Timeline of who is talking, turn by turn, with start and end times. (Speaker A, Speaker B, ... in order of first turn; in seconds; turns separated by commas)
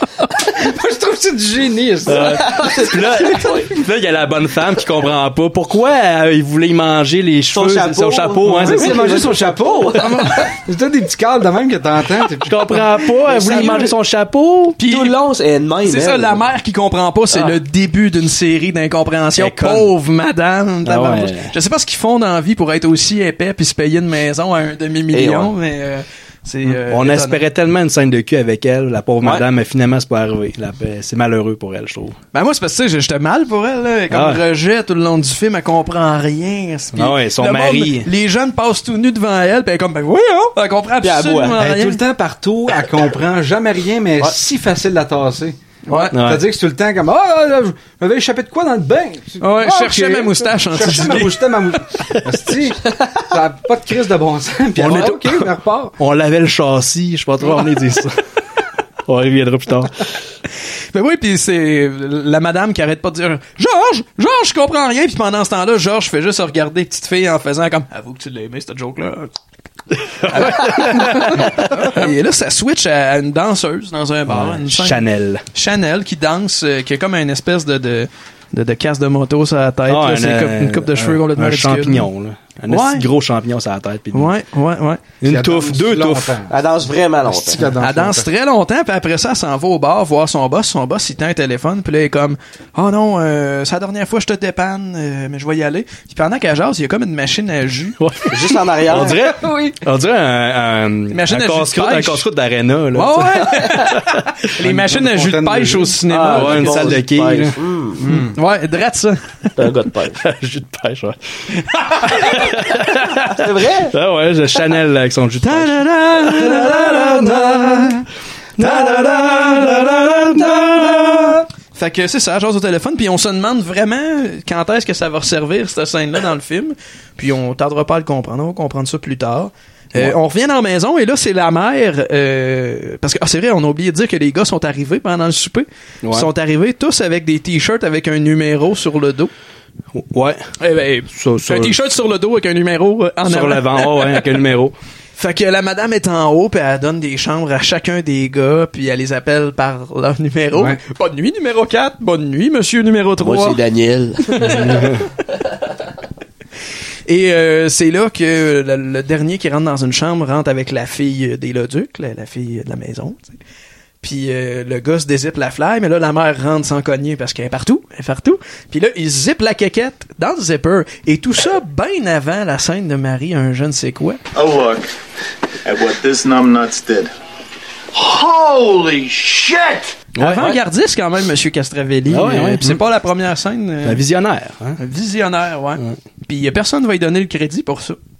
Speaker A: 0.5-2.7, Speaker B: 2.0-9.3, Speaker C: 2.1-3.7, Speaker C: 7.5-10.3, Speaker A: 8.5-12.8, Speaker D: 10.0-10.5, Speaker B: 12.4-14.8, Speaker C: 13.2-13.9, Speaker D: 14.8-15.1, Speaker C: 14.8-16.4, Speaker D: 15.8-27.4, Speaker B: 19.4-19.9, Speaker B: 20.8-21.5, Speaker C: 25.1-25.5, Speaker B: 26.6-32.2, Speaker D: 32.3-42.0, Speaker B: 34.1-34.4, Speaker B: 36.9-38.1, Speaker C: 41.0-41.6, Speaker A: 41.6-56.0, Speaker D: 45.9-46.1, Speaker B: 46.1-46.4, Speaker D: 49.4-51.4, Speaker B: 54.8-55.3, Speaker B: 56.0-58.2, Speaker B: 59.0-60.0, Speaker D: 60.9-69.3, Speaker B: 70.2-72.0, Speaker D: 70.3-82.1, Speaker B: 74.3-75.4, Speaker B: 79.9-84.3, Speaker D: 82.7-83.0, Speaker D: 84.1-85.0, Speaker B: 85.2-86.3, Speaker A: 85.2-86.5, Speaker C: 86.5-87.6, Speaker A: 87.2-88.3, Speaker D: 87.8-98.0, Speaker B: 98.0-104.2, Speaker C: 98.3-99.2, Speaker D: 101.1-102.2, Speaker D: 102.9-107.0, Speaker A: 104.6-106.0, Speaker C: 106.1-108.0, Speaker B: 106.2-107.5, Speaker A: 108.0-108.3, Speaker D: 108.1-109.5, Speaker C: 109.6-110.2, Speaker B: 110.2-111.2, Speaker B: 111.8-118.0, Speaker C: 113.3-113.9, Speaker D: 115.4-117.9, Speaker B: 118.6-121.4, Speaker D: 121.7-139.3, Speaker B: 136.0-136.3, Speaker B: 139.9-140.4, Speaker D: 140.6-144.1, Speaker B: 141.1-141.8, Speaker B: 143.2-144.7, Speaker D: 145.2-153.6, Speaker A: 150.5-150.8, Speaker C: 153.2-154.7, Speaker B: 154.4-155.0, Speaker D: 157.1-163.3, Speaker D: 164.0-174.2, Speaker E: 174.3-174.9, Speaker E: 175.6-177.1, Speaker D: 180.2-184.0, Speaker B: 180.2-180.4, Speaker B: 182.1-182.8, Speaker B: 183.8-184.8, Speaker D: 184.8-188.0